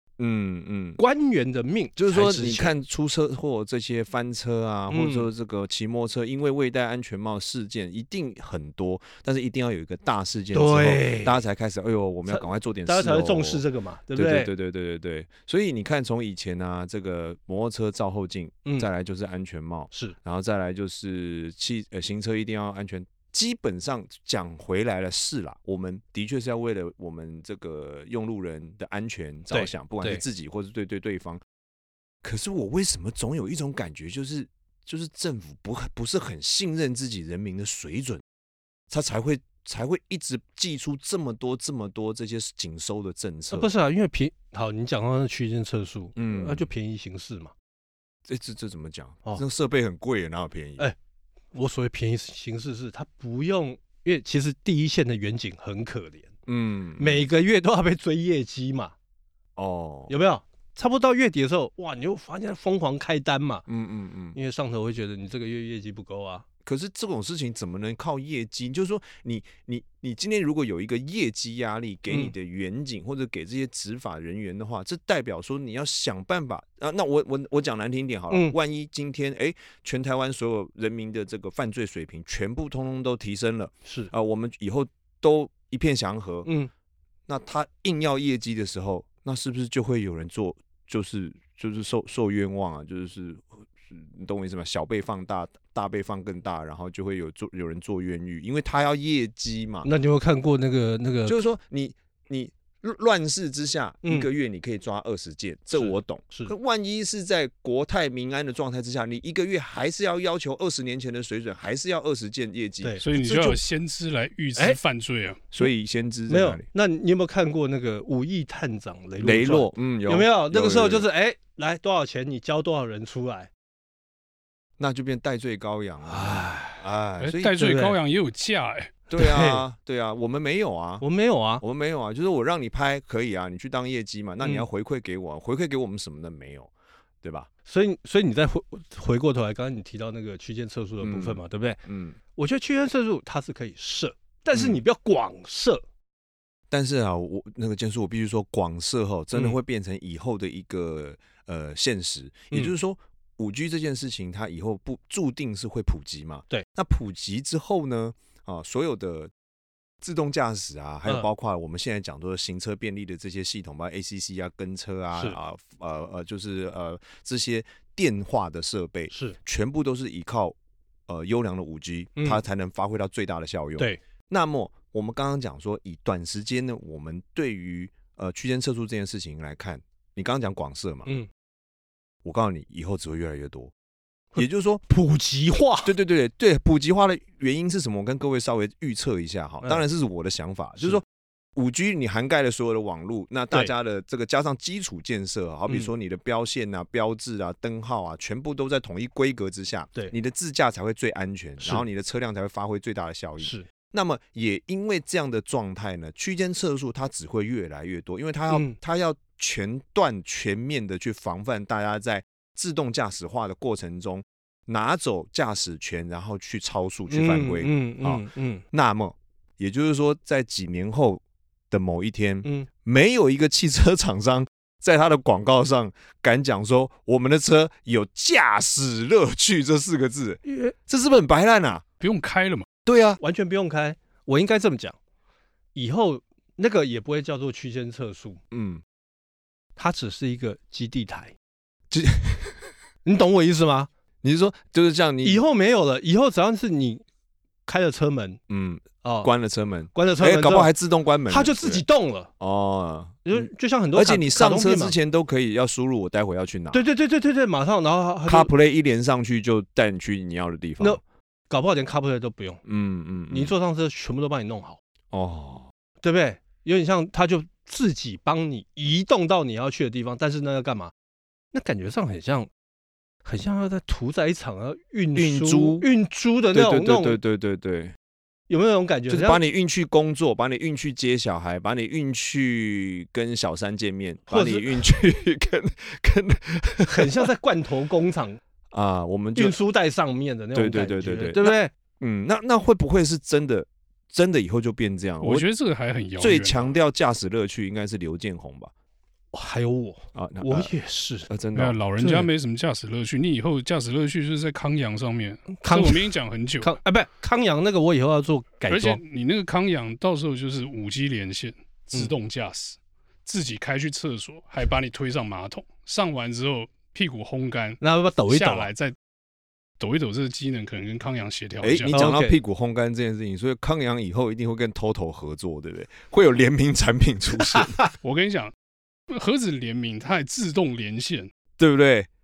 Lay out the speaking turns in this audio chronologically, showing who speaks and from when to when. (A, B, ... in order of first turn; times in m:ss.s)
0:00.2-0:01.0 A
0:01.0-0:02.7 B
0:02.0-0:13.6 A
0:04.9-0:05.3 B
0:10.5-0:11.4 B
0:12.3-0:14.5 B
0:14.1-0:31.4 A
0:19.9-0:20.2 B
0:29.5-0:30.2 B
0:32.2-0:38.2 A
0:38.9-0:43.7 A
0:43.5-0:47.5 B
0:46.2-0:46.7 A
0:48.2-0:50.9 A
0:51.5-0:56.3 B
0:56.5-0:57.2 A
0:57.0-0:58.9 B
0:59.6-1:00.1 A
1:00.1-1:03.6 B
1:03.7-1:04.4 A
1:04.3-1:06.4 B
1:06.6-1:26.5 A
1:18.3-1:18.5 B
1:23.8-1:24.1 B
1:26.4-1:26.7 B
1:27.3-1:39.9 A
1:39.8-1:41.4 B
1:41.2-1:53.0 A
1:45.8-1:46.5 B
1:52.8-1:53.6 B
1:53.0-1:55.4 C
1:55.5-1:56.6 A
1:56.3-2:03.5 B
1:59.2-2:01.0 A
2:04.8-2:07.6 A
2:06.0-2:06.8 B
2:07.2-2:08.9 C
2:07.6-2:08.0 B
2:09.1-2:11.0 A
2:09.2-2:09.6 B
2:11.0-2:11.6 B
2:11.6-2:16.7 A
2:17.2-2:17.5 A
2:17.6-2:21.8 B
2:21.0-2:22.2 A
2:22.3-2:25.8 B
2:26.7-2:39.3 A
2:40.0-2:50.6 A
2:49.1-2:49.4 B
2:51.1-3:01.1 A
3:02.2-3:03.7 A
3:04.3-3:05.9 B
3:04.4-3:04.8 A
3:05.8-3:51.8 A
3:23.4-3:23.7 B
3:28.5-3:28.8 B
3:37.1-3:38.6 B
3:50.4-3:50.7 B
3:52.0-3:52.6 C
3:52.8-3:53.2 A
3:53.2-3:55.0 B
3:55.7-3:58.4 B
3:58.5-3:58.8 A
3:59.8-4:01.3 B
4:01.9-4:02.7 A
4:03.0-4:03.9 B
4:04.2-4:05.4 A
4:05.2-4:07.0 B
4:07.6-4:08.4 B
4:08.5-4:11.8 A
4:09.0-4:09.3 B
4:09.9-4:10.7 B
4:11.3-4:12.3 B
4:12.4-4:16.8 A
4:13.2-4:14.9 B
4:16.7-4:18.5 B
4:18.3-4:21.0 A
4:20.8-4:22.6 B
4:22.6-4:23.5 A
4:23.3-4:24.8 B
4:25.1-4:25.7 A
4:26.0-4:30.9 B
4:31.5-4:32.5 B
4:33.2-4:37.2 B
4:35.1-4:35.9 A
4:36.5-4:37.9 A
4:38.5-4:39.4 B
4:39.1-4:47.3 A
4:44.3-4:44.8 B
4:46.9-4:48.4 B
4:48.7-4:49.6 A
4:49.4-4:51.7 B
4:50.5-4:55.4 A
4:55.2-4:56.7 C
4:56.2-4:58.7 A
4:59.3-5:01.3 B
5:00.1-5:00.7 A
5:01.3-5:01.8 A
5:01.5-5:06.7 C
5:02.0-5:02.3 B
5:05.5-5:09.0 B
5:08.7-5:18.9 C
5:17.8-5:18.7 B
5:19.8-5:22.0 C
5:21.6-5:27.8 A
5:21.9-5:22.4 B
5:27.5-5:27.9 B
5:28.0-5:28.5 C
5:29.1-5:31.3 C
5:31.6-5:32.1 A